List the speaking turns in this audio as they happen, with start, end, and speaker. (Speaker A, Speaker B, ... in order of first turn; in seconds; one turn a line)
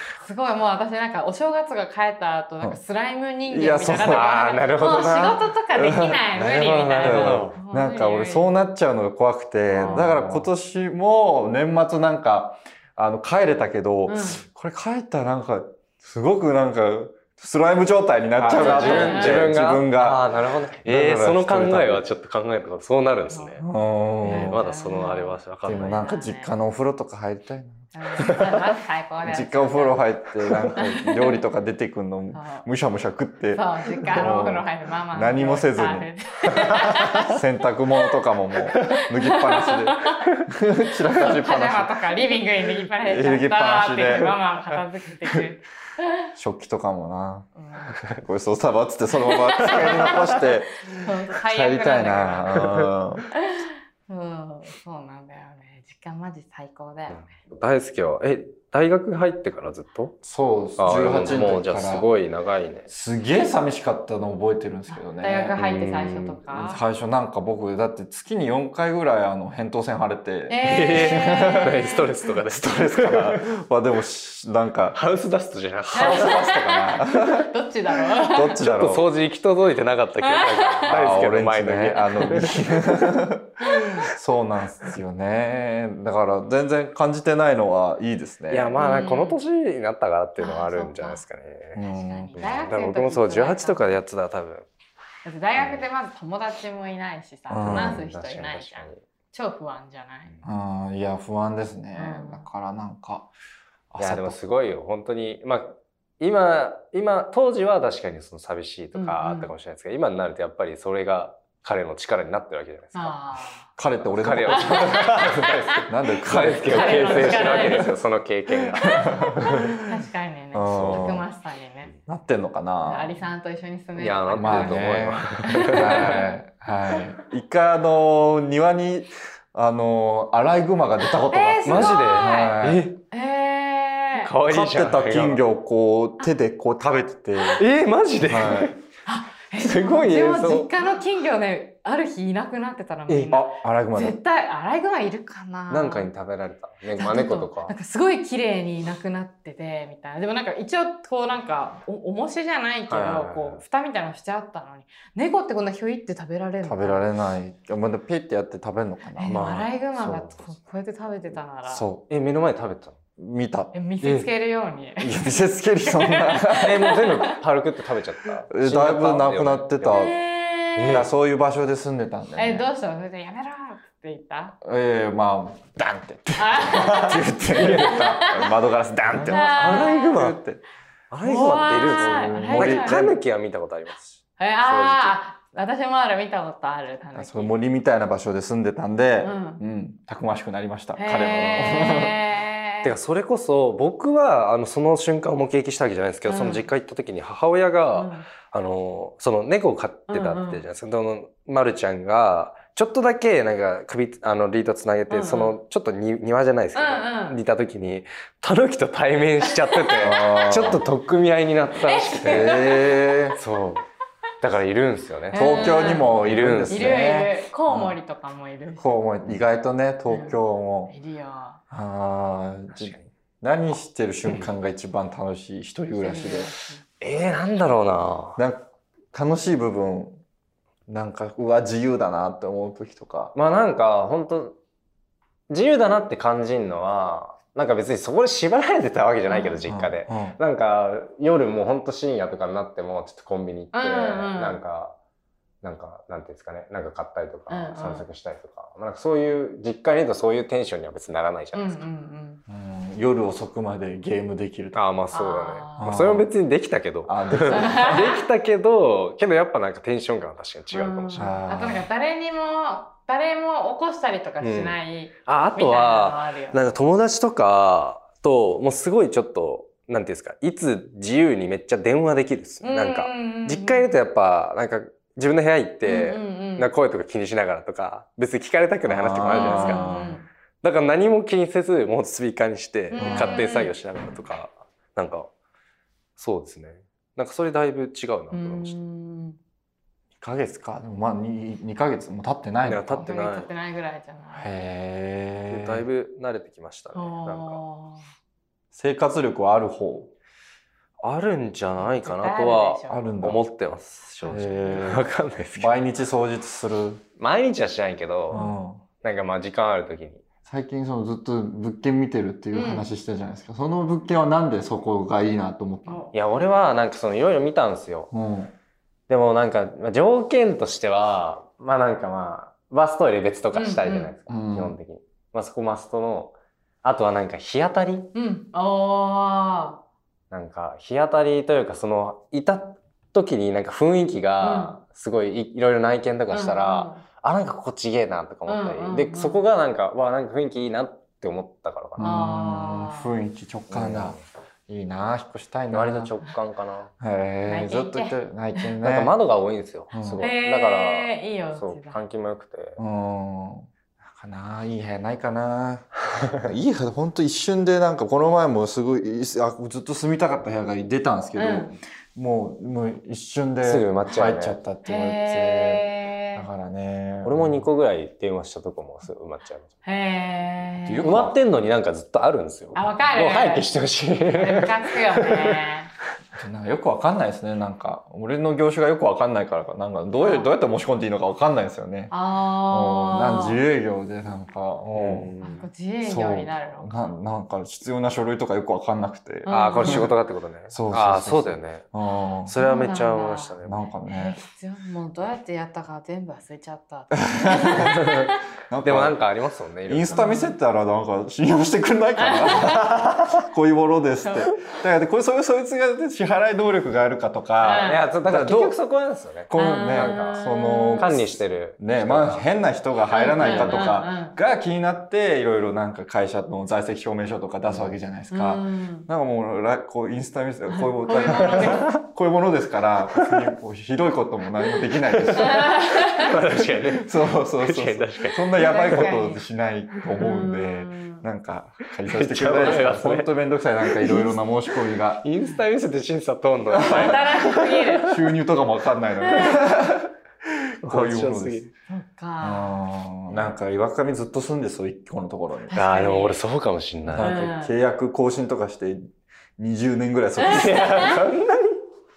Speaker A: 0.1-8.6
Speaker B: 3.5-4.3
Speaker C: 3.9-5.5
Speaker B: 5.7-20.3
Speaker C: 6.5-7.6
Speaker C: 9.7-10.5
Speaker A: 9.8-10.1
Speaker A: 14.1-14.4
Speaker C: 18.4-23.6
Speaker A: 18.6-19.6
Speaker B: 20.8-22.1
Speaker A: 23.3-23.6
Speaker B: 23.6-24.7
Speaker A: 24.2-26.5
Speaker C: 24.2-25.9
Speaker B: 25.6-28.4
Speaker A: 27.9-30.1
Speaker B: 29.2-42.1
Speaker A: 30.7-31.4
Speaker A: 32.3-32.7
Speaker A: 33.5-37.4
Speaker A: 38.8-40.3
Speaker A: 41.0-46.3
Speaker B: 42.9-44.4
Speaker B: 46.3-47.5
Speaker A: 47.6-48.0
Speaker B: 48.1-53.3
Speaker A: 49.2-52.6
Speaker C: 49.4-50.2
Speaker C: 52.6-52.9
Speaker A: 53.4-57.3
Speaker C: 57.1-60.1
Speaker B: 60.2-62.1
Speaker C: 60.8-62.9
Speaker B: 62.9-65.9
Speaker A: 64.9-66.8
Speaker C: 65.7-66.4
Speaker B: 66.5-75.0
Speaker A: 70.5-72.1
Speaker C: 70.6-73.4
Speaker C: 74.9-76.9
Speaker B: 75.9-77.5
Speaker A: 75.9-78.6
Speaker B: 78.1-79.1
Speaker C: 78.6-83.2
Speaker A: 80.2-80.9
Speaker B: 80.9-83.5
Speaker A: 83.6-84.0
Speaker B: 84.1-88.7
Speaker C: 88.5-91.8
Speaker A: 88.7-89.4
Speaker A: 90.4-91.2
Speaker B: 91.7-92.7
Speaker A: 91.8-94.0
Speaker C: 92.3-94.7
Speaker A: 95.2-100.3
Speaker C: 95.6-95.8
Speaker B: 97.5-98.0
Speaker C: 97.6-99.0
Speaker B: 100.4-103.3
Speaker A: 101.9-102.4
Speaker B: 103.9-104.4
Speaker C: 104.0-113.2
Speaker A: 108.9-109.5
Speaker A: 112.9-113.7
Speaker B: 113.8-117.9
Speaker C: 114.0-119.7
Speaker A: 114.5-115.9
Speaker A: 116.6-118.0
Speaker B: 118.7-119.7
Speaker A: 118.8-121.9
Speaker B: 120.5-121.2
Speaker C: 120.7-121.2
Speaker B: 122.0-123.2
Speaker A: 122.8-126.2
Speaker C: 124.0-126.2
Speaker B: 124.3-132.9
Speaker A: 131.3-132.6
Speaker C: 131.6-133.0
Speaker A: 133.1-134.3
Speaker C: 134.2-135.4
Speaker B: 134.5-137.7
Speaker C: 137.6-138.8
Speaker B: 138.2-138.7
Speaker A: 139.1-146.1
Speaker C: 139.6-140.7
Speaker C: 143.1-143.3
Speaker B: 143.3-144.2
Speaker C: 145.7-147.7
Speaker A: 146.9-157.1
Speaker C: 152.9-153.6
Speaker B: 156.6-159.4
Speaker A: 159.2-161.8
Speaker C: 159.2-160.4
Speaker B: 161.7-162.1
Speaker C: 162.1-163.0
Speaker B: 163.2-163.7
Speaker A: 163.7-167.4
Speaker C: 164.0-164.3
Speaker B: 165.0-166.9
Speaker C: 166.6-170.1
Speaker B: 168.5-170.2
Speaker A: 169.8-170.9
Speaker C: 170.8-171.1
Speaker B: 170.9-172.7
Speaker A: 172.3-174.6
Speaker B: 174.6-180.6
Speaker A: 176.4-178.5
Speaker C: 177.5-178.4
Speaker C: 179.0-180.4
Speaker A: 179.2-180.2
Speaker C: 181.1-185.2
Speaker A: 181.2-183.0
Speaker B: 181.7-183.2
Speaker A: 184.4-187.5
Speaker B: 187.1-192.2
Speaker A: 189.2-189.6
Speaker A: 190.9-192.9
Speaker C: 191.1-192.0
Speaker C: 192.8-212.6
Speaker A: 196.3-196.6
Speaker A: 197.9-198.3
Speaker A: 200.1-200.6
Speaker A: 205.1-205.6
Speaker A: 206.7-207.4
Speaker A: 209.7-210.4
Speaker B: 210.0-210.8
Speaker A: 211.8-213.1
Speaker B: 212.2-213.4
Speaker C: 213.3-213.8
Speaker C: 214.4-216.9
Speaker A: 215.3-216.2
Speaker B: 215.3-217.9
Speaker A: 216.7-218.8
Speaker B: 218.8-220.9
Speaker A: 220.1-221.6
Speaker B: 221.7-226.5
Speaker C: 222.7-223.1
Speaker C: 224.2-224.5
Speaker A: 225.9-226.8
Speaker C: 227.0-228.4
Speaker B: 228.3-230.2
Speaker B: 230.9-233.3
Speaker C: 233.3-234.6
Speaker C: 235.5-244.9
Speaker A: 239.3-239.6
Speaker B: 239.6-240.4
Speaker A: 243.7-244.6
Speaker C: 245.6-251.8
Speaker A: 247.5-248.1
Speaker A: 251.5-252.4
Speaker B: 252.5-254.8
Speaker C: 254.7-261.4
Speaker A: 255.1-256.0
Speaker B: 255.8-256.3
Speaker B: 257.1-258.1
Speaker A: 257.5-258.1
Speaker A: 260.7-266.8
Speaker B: 261.1-261.9
Speaker C: 264.4-280.0
Speaker A: 272.6-273.9
Speaker A: 275.8-276.7
Speaker B: 278.9-280.2
Speaker A: 279.2-280.2
Speaker C: 280.6-285.3
Speaker A: 282.9-283.7
Speaker B: 283.0-283.5
Speaker C: 286.2-288.8
Speaker A: 288.3-289.4
Speaker B: 290.2-293.1
Speaker C: 292.6-293.5
Speaker A: 293.0-294.5
Speaker B: 294.3-295.8
Speaker C: 295.5-297.6
Speaker A: 296.9-298.0
Speaker B: 298.7-300.1
Speaker C: 301.0-305.8
Speaker A: 301.8-303.1
Speaker B: 302.9-303.4
Speaker B: 304.2-307.0
Speaker A: 304.3-304.6
Speaker C: 307.2-308.5
Speaker B: 308.3-308.8
Speaker C: 309.0-310.2
Speaker B: 310.5-316.1
Speaker A: 312.5-312.9
Speaker A: 315.9-316.1
Speaker C: 316.1-318.1
Speaker B: 318.1-318.5
Speaker C: 319.1-328.1
Speaker A: 323.5-324.1
Speaker B: 324.3-324.8
Speaker A: 328.1-329.8
Speaker C: 330.3-342.2
Speaker A: 334.4-334.7
Speaker A: 336.3-337.0
Speaker A: 338.5-339.4
Speaker B: 342.0-346.1
Speaker A: 342.0-343.1
Speaker C: 343.7-344.2
Speaker C: 345.7-346.9
Speaker B: 347.0-349.1
Speaker A: 347.5-348.7
Speaker C: 348.8-352.8
Speaker B: 349.9-350.3
Speaker A: 350.2-352.0
Speaker B: 352.8-367.6
Speaker A: 361.4-361.7
Speaker C: 363.6-364.6
Speaker A: 364.8-366.4
Speaker C: 367.2-369.7
Speaker A: 369.8-371.1
Speaker B: 370.8-371.4
Speaker C: 371.0-375.7
Speaker A: 372.7-373.7
Speaker A: 374.2-375.9
Speaker B: 376.4-382.1
Speaker A: 380.2-380.5
Speaker A: 382.1-383.6
Speaker B: 382.7-385.3
Speaker C: 384.9-385.7
Speaker A: 385.4-387.1
Speaker B: 386.0-390.2
Speaker A: 389.4-390.1
Speaker C: 389.5-391.8
Speaker B: 390.7-392.6
Speaker A: 392.1-398.4
Speaker C: 392.5-393.9
Speaker B: 393.6-394.4
Speaker B: 397.2-398.1
Speaker C: 397.9-398.3
Speaker B: 398.7-399.2
Speaker C: 398.8-400.2
Speaker B: 399.8-408.8
Speaker A: 400.1-400.6
Speaker A: 402.2-403.0
Speaker A: 404.2-404.5
Speaker A: 407.6-408.0
Speaker C: 407.6-410.4
Speaker B: 409.5-435.3
Speaker A: 409.5-411.2
Speaker C: 411.0-412.4
Speaker A: 413.1-414.4
Speaker C: 413.4-413.9
Speaker C: 417.7-417.9
Speaker A: 418.3-419.1
Speaker A: 420.7-421.9
Speaker C: 421.3-421.8
Speaker C: 425.2-429.1
Speaker A: 425.4-426.2
Speaker A: 428.6-429.4
Speaker A: 430.2-431.2
Speaker C: 432.1-434.4
Speaker C: 435.2-438.3
Speaker B: 436.7-437.2
Speaker A: 436.8-438.1
Speaker B: 438.0-440.1
Speaker C: 439.2-439.6
Speaker C: 440.8-441.7
Speaker B: 440.8-441.7
Speaker A: 441.9-442.8
Speaker B: 442.4-445.7
Speaker A: 445.7-446.4
Speaker C: 445.7-447.4
Speaker B: 447.0-451.1
Speaker A: 447.2-447.7
Speaker A: 450.4-451.2
Speaker C: 450.4-451.8